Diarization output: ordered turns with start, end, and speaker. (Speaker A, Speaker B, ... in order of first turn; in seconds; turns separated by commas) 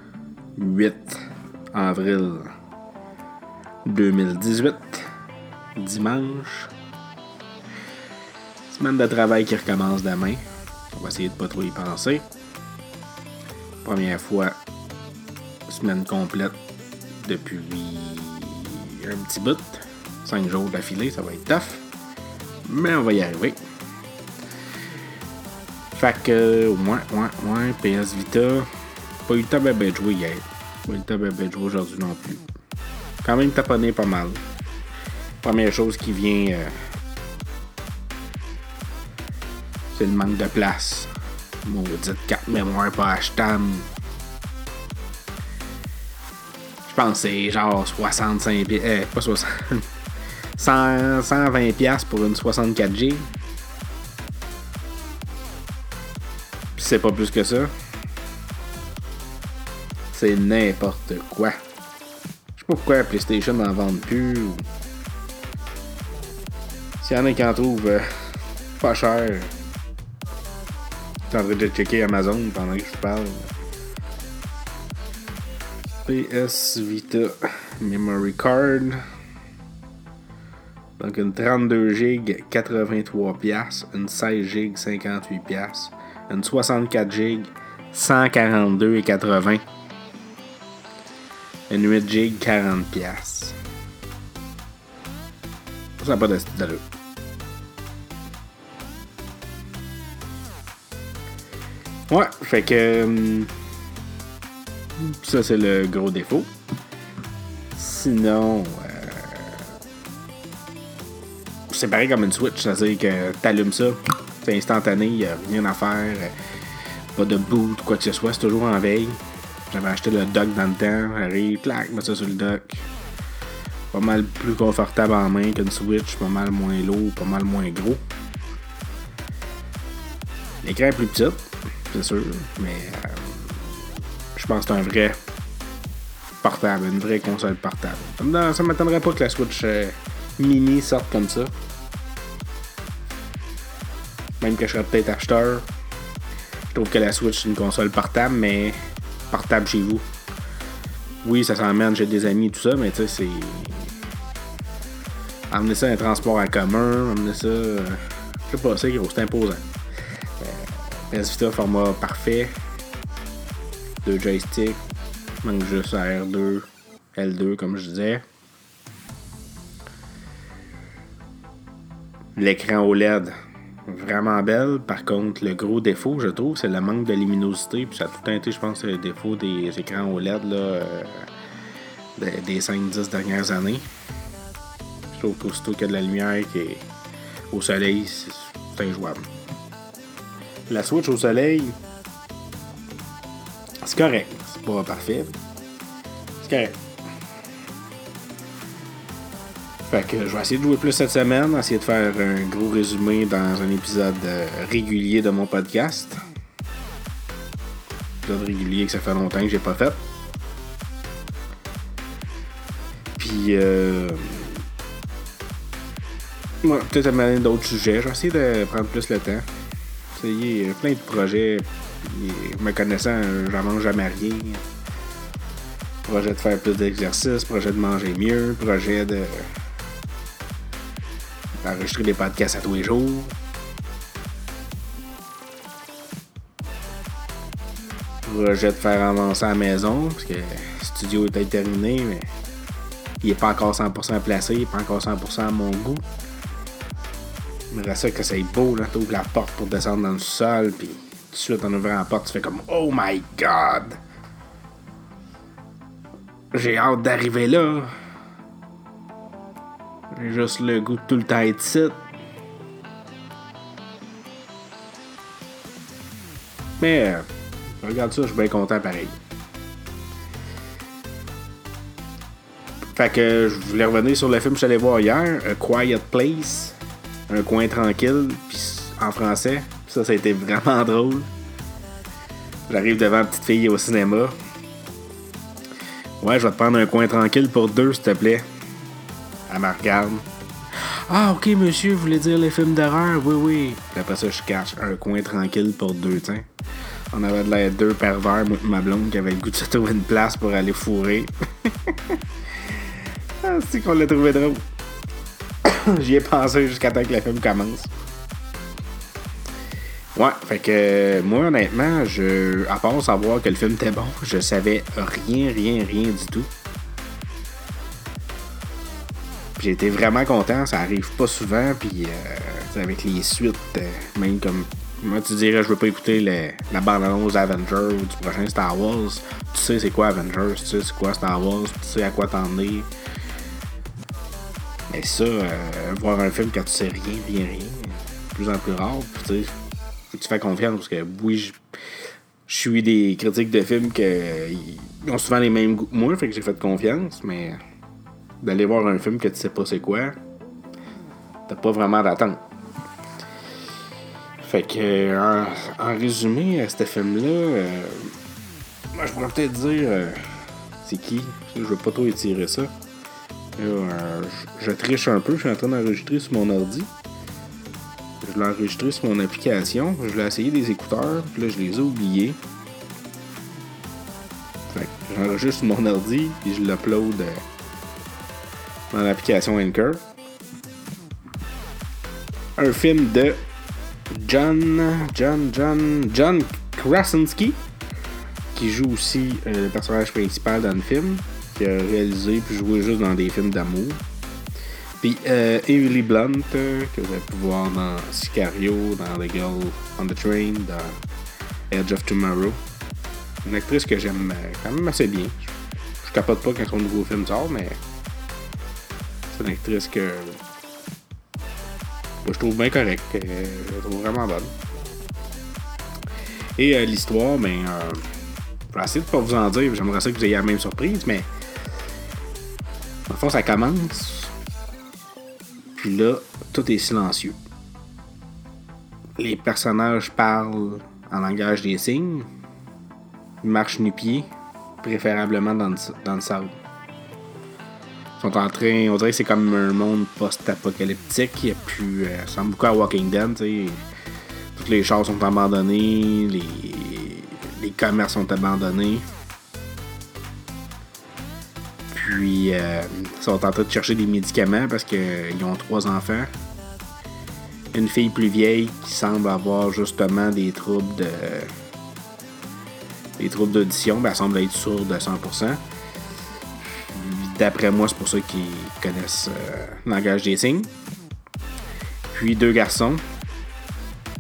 Speaker A: 0.6-1.2, Speaker A: 1.7-2.5, Speaker A: 3.9-5.1, Speaker A: 5.8-6.7, Speaker A: 8.7-10.4, Speaker A: 10.9-12.3, Speaker A: 13.8-14.6, Speaker A: 15.7-16.6, Speaker A: 17.2-21.9, Speaker A: 22.6-23.6, Speaker A: 25.9-28.7, Speaker A: 29.3-32.5, Speaker A: 33.2-34.4, Speaker A: 35.4-36.8, Speaker A: 39.9-41.1, Speaker A: 41.6-43.9, Speaker A: 46.9-49.9, Speaker A: 50.6-53.3, Speaker A: 56.8-57.7, Speaker A: 60.1-61.6, Speaker A: 62.6-64.6, Speaker A: 67.0-68.1, Speaker A: 68.8-69.5, Speaker A: 71.3-73.5, Speaker A: 76.0-79.0, Speaker A: 81.0-89.6, Speaker A: 91.7-93.6, Speaker A: 96.0-96.8, Speaker A: 102.1-103.5, Speaker A: 105.0-106.5, Speaker A: 107.7-109.7, Speaker A: 111.7-116.4, Speaker A: 117.2-122.9, Speaker A: 123.9-128.0, Speaker A: 130.6-133.8, Speaker A: 134.3-135.2, Speaker A: 136.4-141.5, Speaker A: 144.4-145.7, Speaker A: 146.7-148.8, Speaker A: 149.3-150.1, Speaker A: 151.2-153.9, Speaker A: 155.5-159.7, Speaker A: 160.4-162.5, Speaker A: 164.0-164.8, Speaker A: 165.4-168.2, Speaker A: 172.4-173.3, Speaker A: 173.9-181.3, Speaker A: 182.2-183.9, Speaker A: 185.1-186.9, Speaker A: 187.5-189.2, Speaker A: 190.7-191.8, Speaker A: 193.8-195.3, Speaker A: 196.4-196.8, Speaker A: 199.9-206.2, Speaker A: 208.2-210.0, Speaker A: 213.2-214.6, Speaker A: 216.6-219.5, Speaker A: 220.1-224.6, Speaker A: 226.1-229.5, Speaker A: 231.6-233.3, Speaker A: 238.2-242.3, Speaker A: 243.2-246.1, Speaker A: 247.7-254.0, Speaker A: 256.5-257.9, Speaker A: 260.1-262.0, Speaker A: 266.8-269.2, Speaker A: 272.9-276.8, Speaker A: 277.3-281.3, Speaker A: 282.7-284.4, Speaker A: 286.2-288.5, Speaker A: 289.5-296.5, Speaker A: 297.1-302.2, Speaker A: 303.4-304.6, Speaker A: 305.6-307.9, Speaker A: 310.1-316.5, Speaker A: 319.6-332.9, Speaker A: 334.9-339.5, Speaker A: 340.1-341.6, Speaker A: 342.5-347.6, Speaker A: 348.4-350.2, Speaker A: 351.5-352.4, Speaker A: 354.4-358.2, Speaker A: 358.9-362.7, Speaker A: 363.6-366.9, Speaker A: 368.2-372.4, Speaker A: 374.7-377.4, Speaker A: 378.9-380.0, Speaker A: 382.6-383.4, Speaker A: 384.1-387.6, Speaker A: 388.5-394.0, Speaker A: 395.0-401.0, Speaker A: 401.7-402.6, Speaker A: 403.4-407.8, Speaker A: 409.3-410.4, Speaker A: 412.2-414.5, Speaker A: 416.6-418.1, Speaker A: 418.7-421.3, Speaker A: 423.1-424.3, Speaker A: 425.8-427.4, Speaker A: 429.2-432.3, Speaker A: 433.4-434.3, Speaker A: 434.8-436.5, Speaker A: 438.2-443.8, Speaker A: 444.6-449.1, Speaker A: 451.9-456.3, Speaker A: 457.7-461.5, Speaker A: 463.2-465.6, Speaker A: 466.9-470.7, Speaker A: 472.1-473.0